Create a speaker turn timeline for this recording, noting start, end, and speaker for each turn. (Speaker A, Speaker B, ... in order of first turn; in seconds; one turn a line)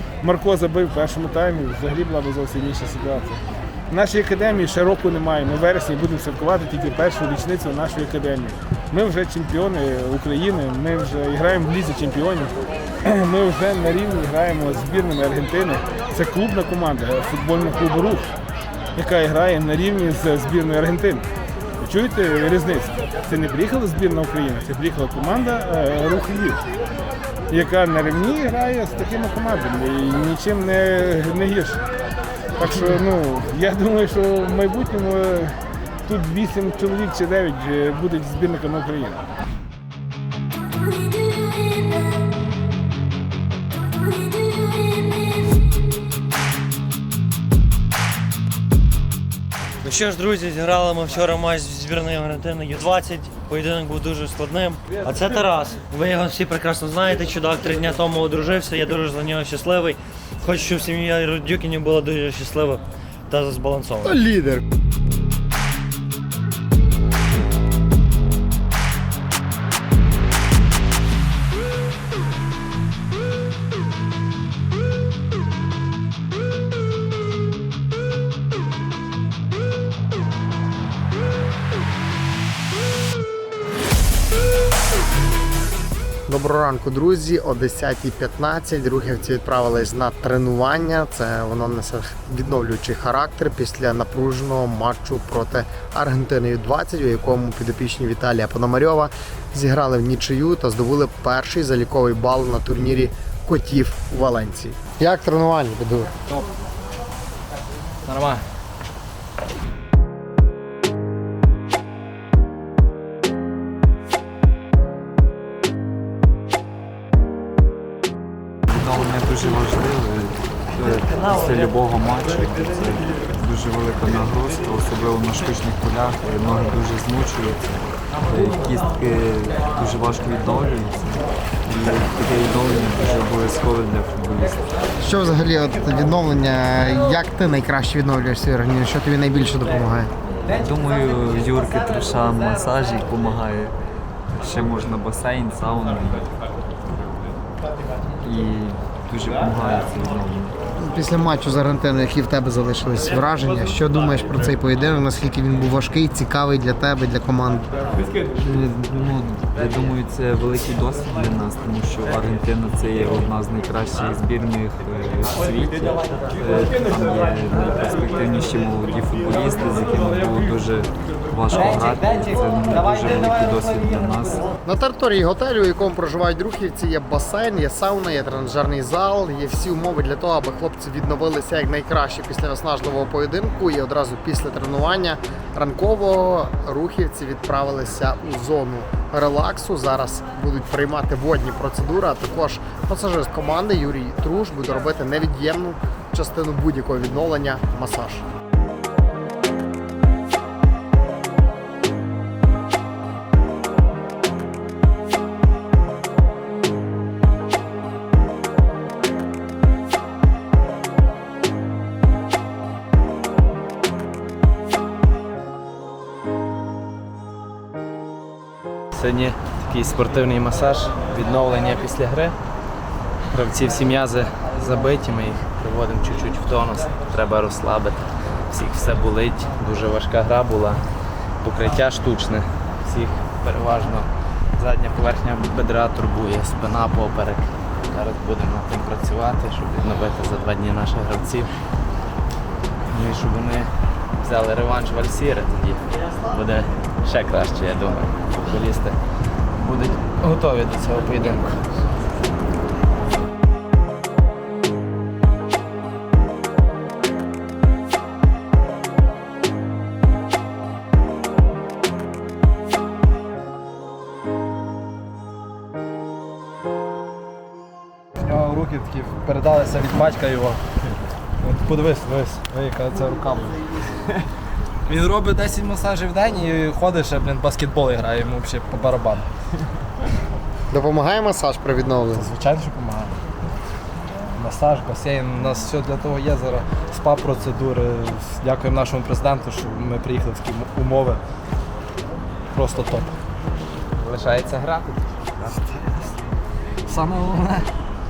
Speaker A: 0.2-12.5
Speaker A: 13.0-18.3
Speaker A: 18.9-21.3
Speaker A: 21.8-26.6
Speaker A: 27.5-31.8
Speaker A: 32.6-39.2
Speaker B: 49.8-64.2
Speaker C: 64.0-64.6
Speaker C: 86.3-106.2
Speaker D: 108.0-108.4
Speaker E: 118.7-134.6
Speaker C: 135.0-140.1
Speaker E: 140.5-143.7
Speaker E: 144.4-146.3
Speaker E: 148.2-150.6
Speaker C: 150.8-157.7
Speaker E: 158.3-174.5
Speaker C: 174.6-198.2
Speaker D: 218.9-222.3
Speaker D: 223.3-230.8
Speaker D: 231.4-241.5
Speaker D: 242.9-243.7
Speaker D: 244.2-249.0
Speaker D: 249.6-251.6
Speaker F: 268.2-270.6
Speaker F: 271.4-273.6
Speaker F: 274.9-279.3
Speaker C: 280.7-282.3
Speaker F: 282.1-283.2
Speaker F: 284.4-291.2
Speaker F: 292.5-293.1
Speaker D: 294.0-295.1
Speaker F: 295.5-296.2
Speaker F: 296.9-297.7